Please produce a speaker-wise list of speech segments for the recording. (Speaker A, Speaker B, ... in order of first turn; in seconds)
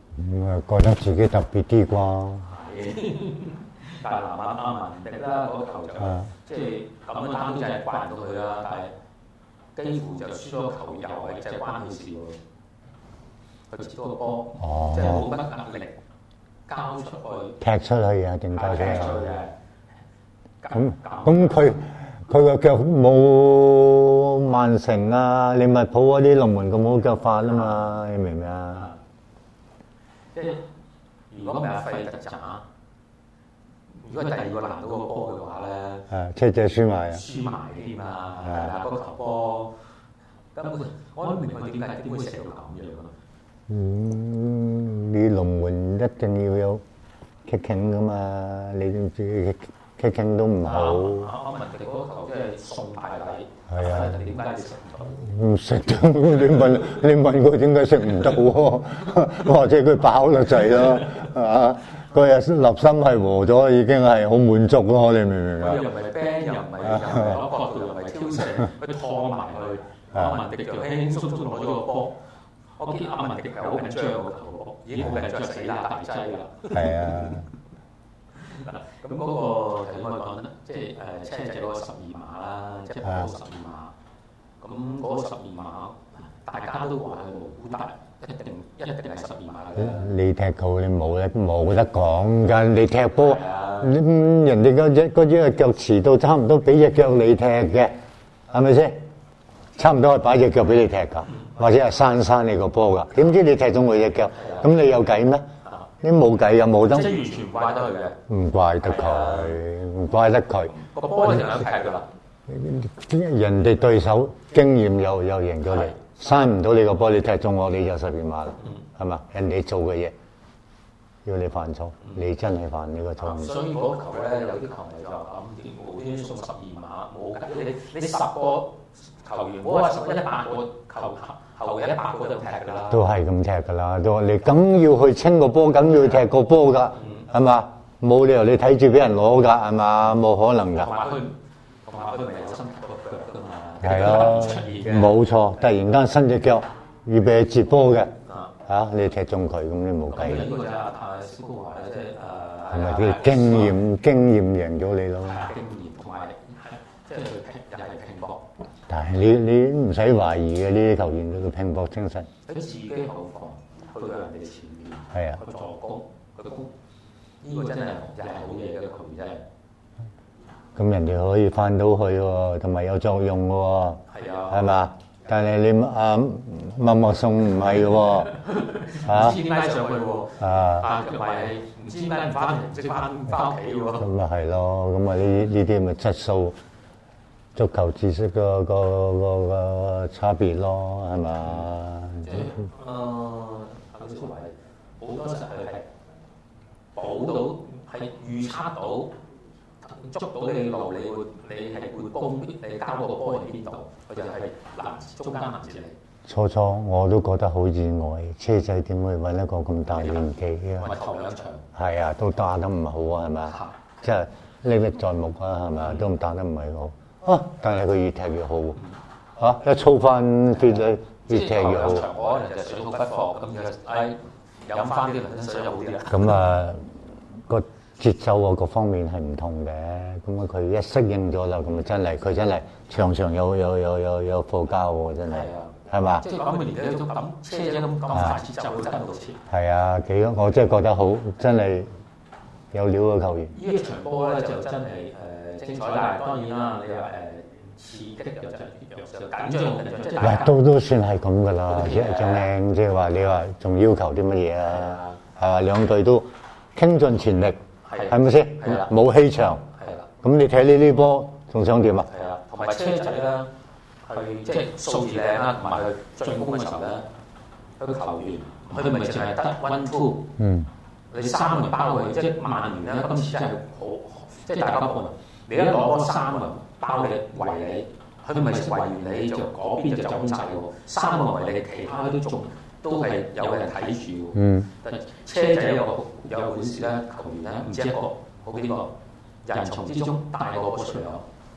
Speaker A: 0.1-2.5, 6.0-6.3, 14.6-15.3, 17.6-19.4, 20.8-28.9, 36.1-37.3, 43.7-46.8, 47.5-51.3, 53.7-54.3, 55.2-65.9, 66.9-67.4, 70.2-70.5, 76.7-77.5, 83.0-83.3, 89.8-98.0, 98.5-99.0, 99.8-105.5, 106.0-107.2, 108.3-110.8, 112.5-120.2, 121.2-123.6, 132.9-141.0, 143.8-148.1, 148.7-150.5, 152.7-155.6, 158.9-162.3, 165.1-165.4, 170.8-178.4, 178.9-179.5, 180.4-180.9, 183.9-186.6, 187.6-192.5, 206.3-211.0, 211.8-218.8, 219.4-222.1, 226.1-226.8, 227.5-236.3, 238.2-238.4, 239.5-241.9, 242.7-243.6, 250.2-259.7, 260.2-262.1, 270.4-270.7, 284.3-284.7
Speaker B: 2.5-8.9, 9.8-12.4, 13.7-16.0, 16.7-17.6, 18.5-19.5, 20.6-21.8, 30.4-30.6, 31.3-32.6, 33.9-36.1, 37.1-39.7, 40.6-43.1, 50.6-55.3, 65.6-72.2, 72.8-77.4, 78.5-83.9, 84.6-90.1, 93.2-93.9, 104.4-104.7, 106.9-108.2, 108.9-109.5, 110.8-112.1, 123.2-133.0, 140.8-145.2, 150.1-153.8, 155.3-158.5, 162.5-166.7, 167.4-169.4, 174.1-174.7, 178.6-184.1, 192.2-195.9, 197.0-199.1, 199.8-206.0, 210.8-211.7, 221.3-226.2, 235.3-239.4, 243.6-250.6, 251.7-252.5, 257.9-258.9, 259.8-260.1, 262.1-263.5, 264.1-267.1, 267.8-270.3, 271.1-288.9, 289.5-291.2